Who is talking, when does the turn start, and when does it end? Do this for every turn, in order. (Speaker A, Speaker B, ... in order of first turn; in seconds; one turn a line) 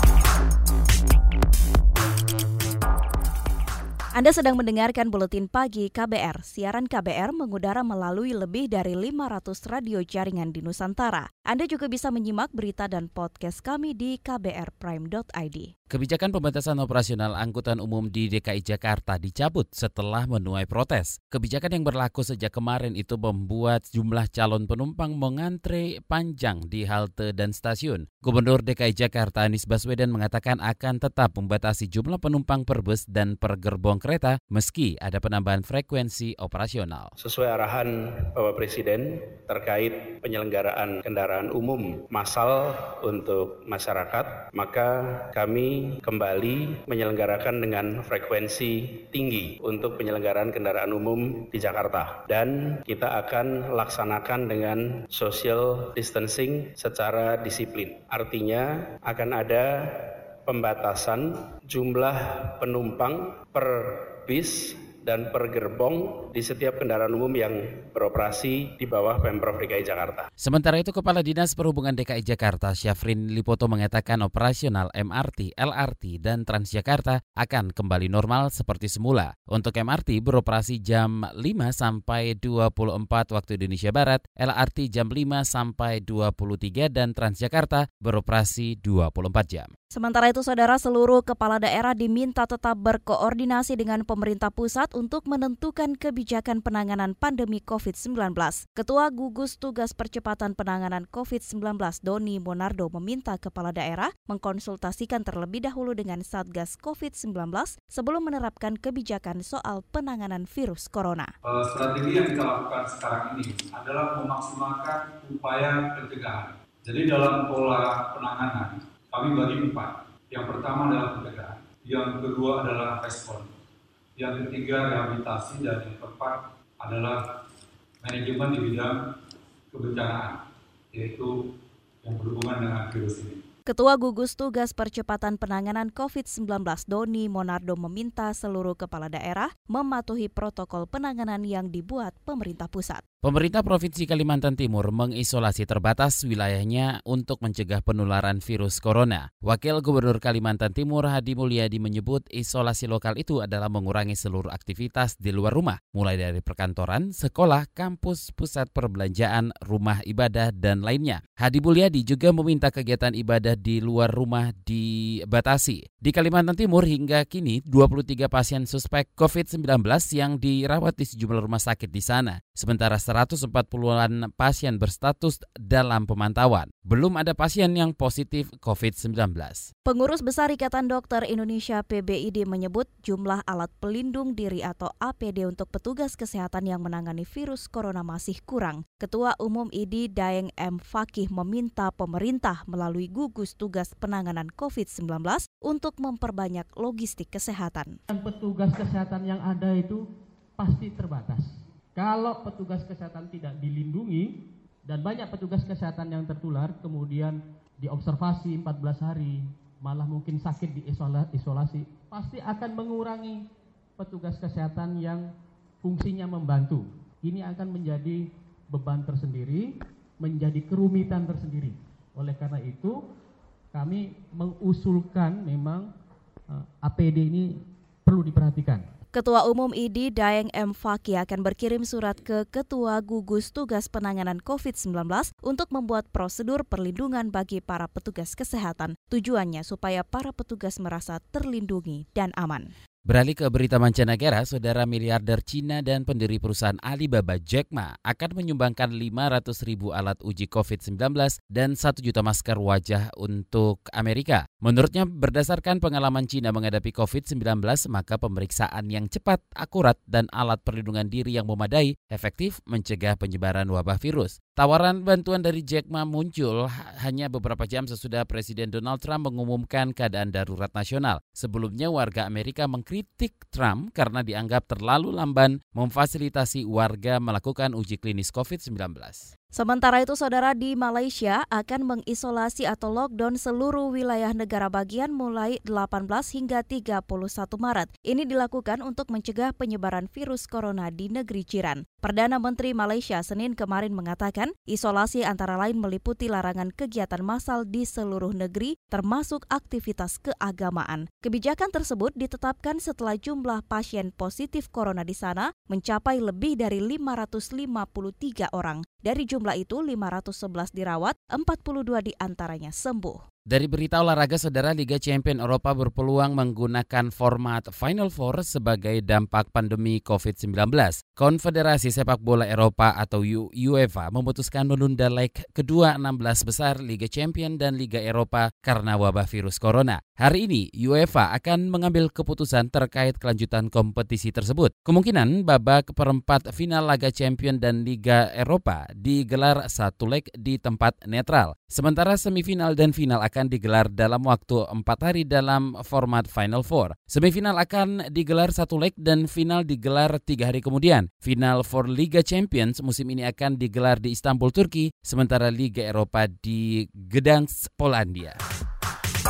Speaker A: 4.2-15.7
Speaker B: 15.9-37.1
Speaker C: 37.2-70.3
Speaker B: 70.4-89.7
Speaker A: 89.9-111.3
Speaker D: 111.4-123.5
Speaker D: 124.2-127.2
Speaker D: 128.0-129.1
Speaker D: 129.7-130.4
Speaker D: 130.9-131.5
Speaker D: 132.0-133.4
Speaker A: 133.7-143.0
Speaker B: 143.2-179.7
Speaker A: 179.9-197.9
Speaker E: 198.1-223.0
Speaker E: 223.7-225.9
Speaker E: 226.5-228.9
Speaker A: 229.1-242.7
Speaker B: 243.1-279.3
Speaker A: 279.5-313.2
Speaker B: 313.5-358.4